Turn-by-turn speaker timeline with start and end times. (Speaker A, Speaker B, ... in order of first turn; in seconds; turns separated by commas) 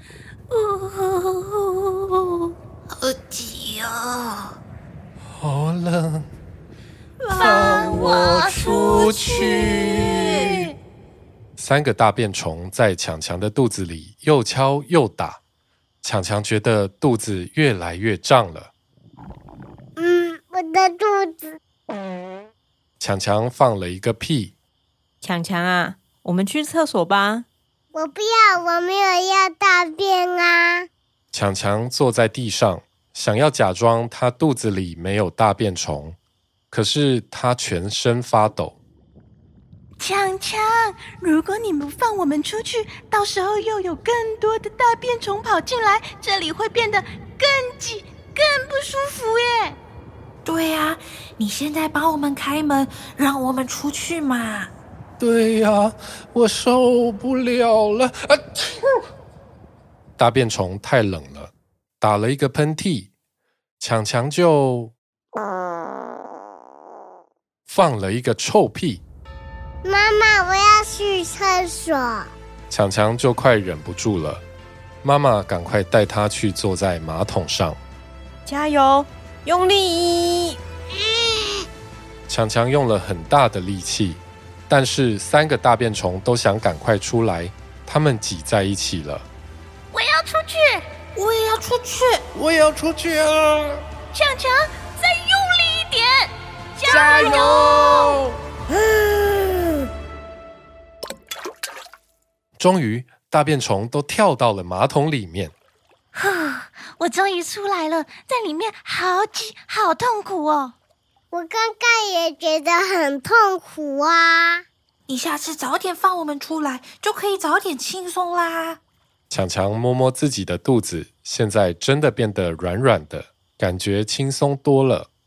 Speaker A: 0.5-4.4, Speaker B: 5.4-6.3, Speaker A: 7.2-10.7, Speaker B: 7.3-10.6, Speaker B: 11.6-15.4, Speaker B: 16.0-18.7, Speaker C: 19.9-21.6, Speaker B: 23.0-24.5, Speaker D: 25.2-27.4, Speaker C: 27.9-30.9, Speaker B: 31.3-36.2, Speaker B: 36.7-38.8, Speaker A: 40.0-49.8, Speaker E: 50.4-54.7, Speaker B: 55.2-58.7, Speaker B: 60.2-63.1, Speaker B: 63.8-64.9, Speaker B: 67.7-69.0, Speaker C: 69.8-72.3, Speaker B: 72.7-74.4, Speaker B: 75.0-77.8, Speaker D: 78.5-80.6, Speaker B: 82.3-89.3, Speaker A: 89.9-90.8, Speaker E: 91.1-92.2, Speaker B: 92.3-93.8, Speaker A: 94.1-98.2, Speaker B: 96.9-98.2, Speaker B: 102.6-105.5, Speaker A: 106.1-110.7, Speaker C: 111.3-114.6, Speaker E: 115.1-118.8, Speaker B: 119.3-125.1